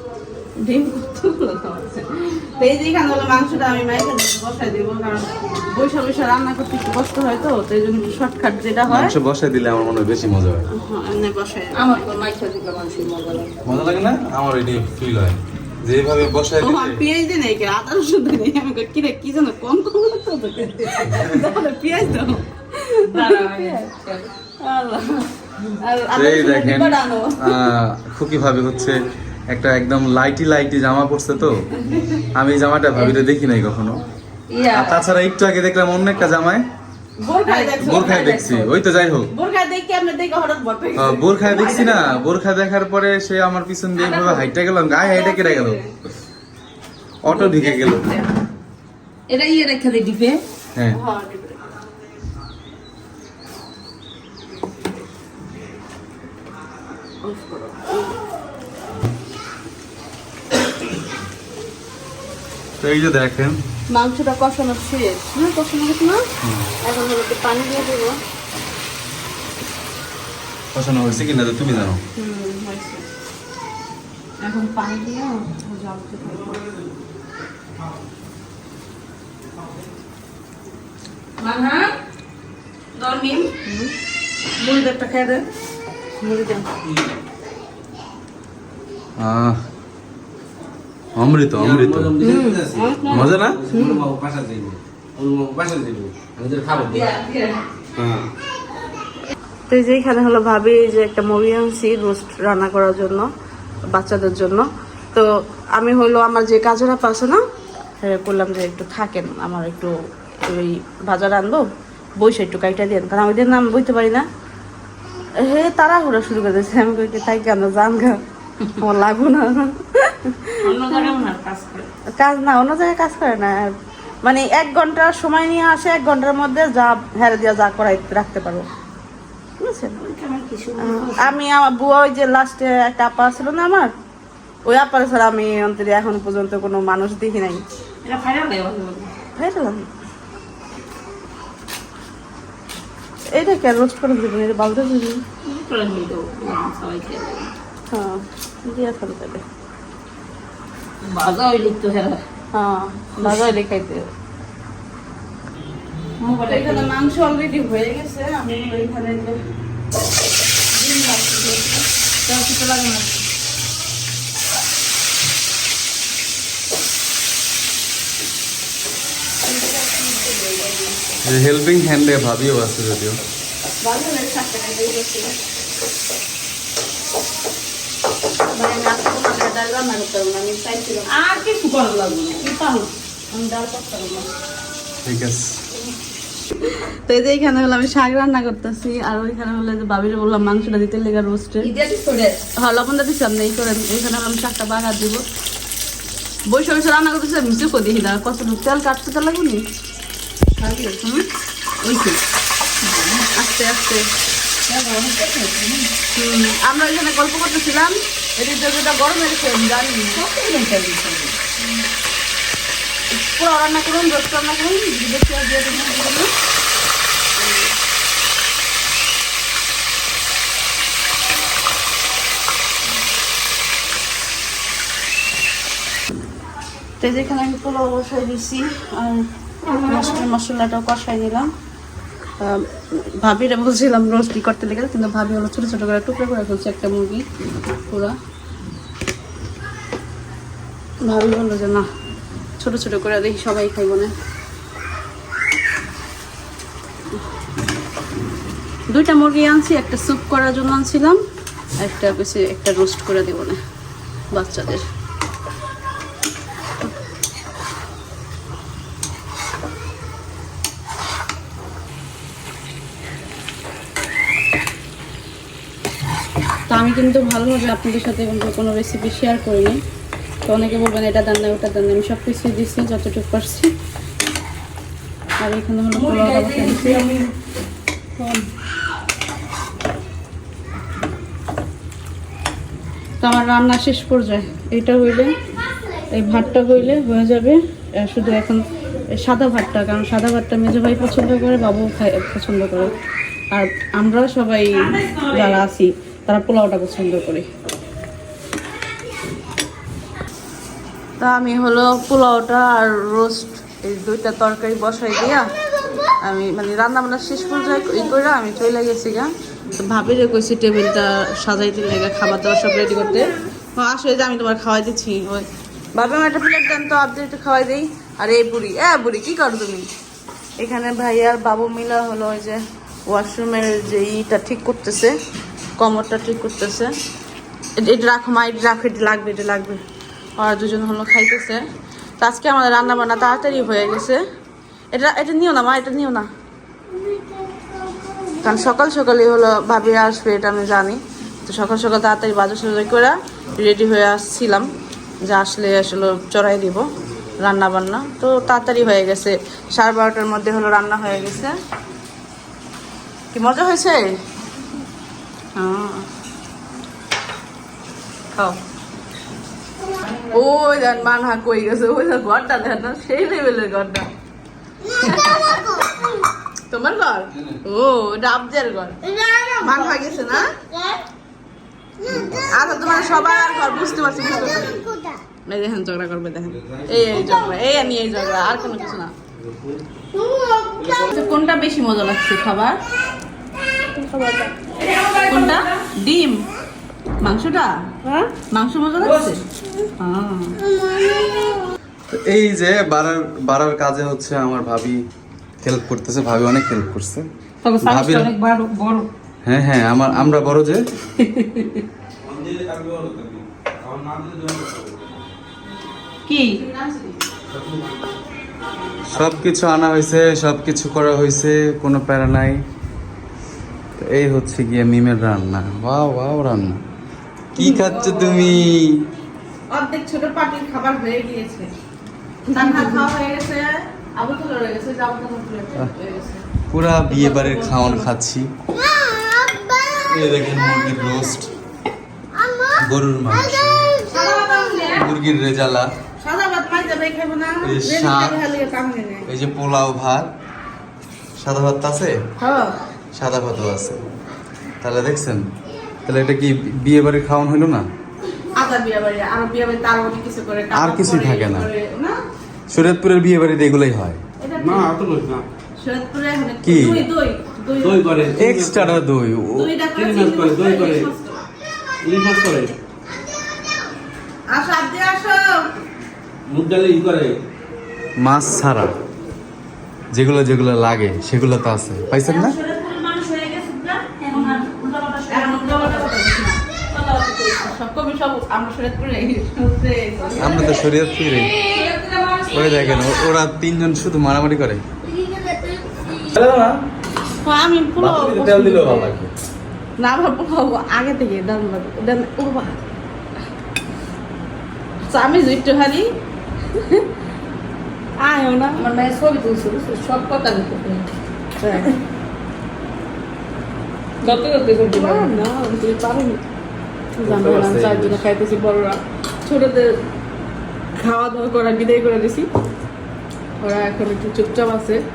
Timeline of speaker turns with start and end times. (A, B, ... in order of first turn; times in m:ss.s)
0:00.6-0:09.1 A
0:08.9-0:10.7 B
0:10.7-0:12.0 A
0:11.7-0:13.5 C
0:13.6-0:17.0 B
0:16.6-0:23.9 A
0:21.1-0:21.5 B
0:23.1-0:24.3 C
0:24.6-0:25.3 A
0:25.8-0:27.7 A
0:26.1-0:31.7 B
0:32.3-0:34.0 B
0:34.5-0:35.0 C
0:34.7-0:36.6 B
0:37.2-0:38.3 A
0:37.5-0:38.7 C
0:37.8-0:39.3 B
0:39.3-0:42.1 A
0:41.0-0:45.8 B
0:44.0-0:45.9 A
0:47.2-0:48.0 B
0:47.5-0:48.2 A
0:49.3-0:50.4 C
0:50.9-0:51.6 A
0:57.2-0:58.2 A
1:02.8-1:03.6 B
1:03.9-1:06.2 A
1:06.4-1:06.7 B
1:06.8-1:08.2 A
1:10.7-1:12.0 B
1:12.2-1:13.0 A
1:14.4-1:16.6 A
1:21.4-1:21.9 C
1:23.0-1:23.9 A
1:24.6-1:25.4 A
1:26.2-1:26.7 A
1:26.8-1:27.1 D
1:29.2-1:29.6 B
1:31.1-1:32.2 B
1:31.5-1:37.1 D
1:32.2-1:34.0 A
1:33.1-1:33.6 B
1:36.8-1:37.6 C
1:38.0-1:38.3 D
1:39.7-1:43.3 A
1:43.9-1:47.4 A
1:48.0-1:51.6 A
1:52.2-1:54.2 A
1:55.4-1:58.2 A
1:58.8-2:01.1 A
2:00.6-2:01.9 C
2:02.2-2:03.7 A
2:04.2-2:08.7 A
2:09.6-2:10.0 A
2:10.0-2:11.3 C
2:10.8-2:13.9 A
2:14.6-2:17.6 A
2:18.0-2:19.1 C
2:19.3-2:19.9 A
2:23.3-2:25.2 A
2:25.4-2:27.5 C
2:27.9-2:29.4 A
2:31.0-2:32.2 C
2:32.5-2:34.0 A
2:33.2-2:33.5 C
2:36.2-2:36.9 C
2:36.4-2:39.4 A
2:40.9-2:41.6 A
2:42.2-2:43.1 C
2:49.4-2:51.0 A
2:51.2-2:53.2 B
2:53.8-2:55.3 A
2:58.5-3:01.4 A
3:01.1-3:02.4 C
3:02.4-3:04.3 A
3:05.0-3:05.5 B
3:06.6-3:11.7 A
3:11.6-3:12.4 C
3:12.6-3:15.2 A
3:16.5-3:19.6 A
3:20.6-3:21.0 C
3:21.8-3:22.2 A
3:22.8-3:23.3 C
3:23.3-3:24.0 A
3:24.7-3:25.9 C
3:26.1-3:30.3 A
3:30.2-3:31.5 C
3:33.1-3:36.3 A
3:37.4-3:37.7 A
3:47.0-3:51.5 A
3:53.2-3:57.2 A
3:57.9-3:58.1 A
4:01.0-4:01.8 A
4:02.6-4:04.1 A
4:08.9-4:11.2 A
4:11.8-4:13.6 A
4:14.3-4:14.8 A
4:26.7-4:29.8 A
4:30.4-4:33.7 A
4:35.4-4:37.0 A
4:35.9-4:37.3 C
4:38.2-4:38.4 A
4:43.2-4:45.3 A
4:46.1-4:48.6 A
4:49.1-4:52.9 A
4:53.5-4:57.5 A
4:54.9-4:55.6 C
5:01.2-5:05.4 A
5:06.2-5:19.9 A
5:20.6-5:25.1 A
5:25.8-5:26.9 A
5:27.8-5:29.8 A
5:30.4-5:31.6 A
5:32.2-5:34.2 A
5:34.9-5:36.3 A
5:38.4-5:44.7 A
5:45.2-5:46.8 A
5:47.4-5:51.5 A
5:53.3-5:54.0 A
5:55.5-5:56.0 A
6:00.1-6:00.3 C
6:00.3-6:04.1 A
6:05.0-6:05.8 A
6:06.7-6:09.0 A
6:09.6-6:10.5 A
6:12.3-6:14.9 A
6:15.4-6:19.1 A
6:16.5-6:17.5 D
6:19.3-6:19.8 D
6:20.8-6:22.8 A
6:24.0-6:24.5 A
6:24.7-6:25.8 C
6:25.2-6:26.4 A
6:27.2-6:29.4 A
6:29.1-6:29.3 C
6:30.0-6:30.6 A
6:32.1-6:35.0 B
6:35.6-6:37.3 B
6:37.6-6:39.1 C
6:37.8-6:38.3 B
6:39.4-6:40.8 B
6:40.1-6:40.6 D
6:41.2-6:41.8 C
6:42.2-6:45.3 D
6:46.3-6:46.6 C
6:46.4-6:47.2 A
6:47.5-6:47.9 D
6:49.1-6:52.6 B
6:54.0-6:56.8 B
6:57.5-6:59.0 B
6:57.6-6:58.4 C
6:59.7-7:01.7 A
7:02.5-7:03.0 C
7:02.5-7:06.4 A
7:06.7-7:08.5 B
7:07.1-7:08.1 A
7:10.0-7:11.5 B
7:12.8-7:14.0 B
7:14.1-7:15.1 C
7:14.9-7:15.9 B
7:16.2-7:19.3 A
7:17.6-7:18.4 B
7:19.3-7:20.3 B
7:21.4-7:22.2 B
7:22.4-7:22.7 A
7:23.1-7:24.0 B
7:24.8-7:25.4 B
7:26.0-7:27.9 B
7:28.5-7:32.2 A
7:30.7-7:31.7 B
7:32.7-7:34.2 B
7:34.4-7:34.9 A
7:34.6-7:35.5 D
7:35.8-7:38.2 A
7:36.6-7:37.1 B
7:37.8-7:39.0 D
7:38.3-7:39.7 B
7:39.6-7:41.4 A
7:39.9-7:41.1 D
7:42.0-7:42.7 D
7:44.5-7:45.6 A
7:46.5-7:47.4 D
7:48.2-7:48.9 B
7:50.1-7:52.6 B
7:52.2-7:56.2 C
7:54.3-7:54.6 A
7:55.3-7:56.6 A
7:56.9-7:57.7 C
7:57.6-8:00.7 A
8:00.4-8:01.6 B
8:01.6-8:03.3 C
8:02.5-8:04.8 B
8:06.3-8:06.8 B
8:07.4-8:09.1 A
8:08.0-8:09.3 B
8:10.0-8:12.8 A
8:15.1-8:16.1 A
8:16.7-8:17.0 A
8:18.2-8:18.8 A
8:18.8-8:21.1 C
8:21.6-8:21.9 A
8:24.2-8:25.3 C
8:24.9-8:26.4 A
8:27.2-8:30.0 A
8:27.2-8:28.2 B
8:30.9-8:32.5 A
8:33.6-8:35.0 A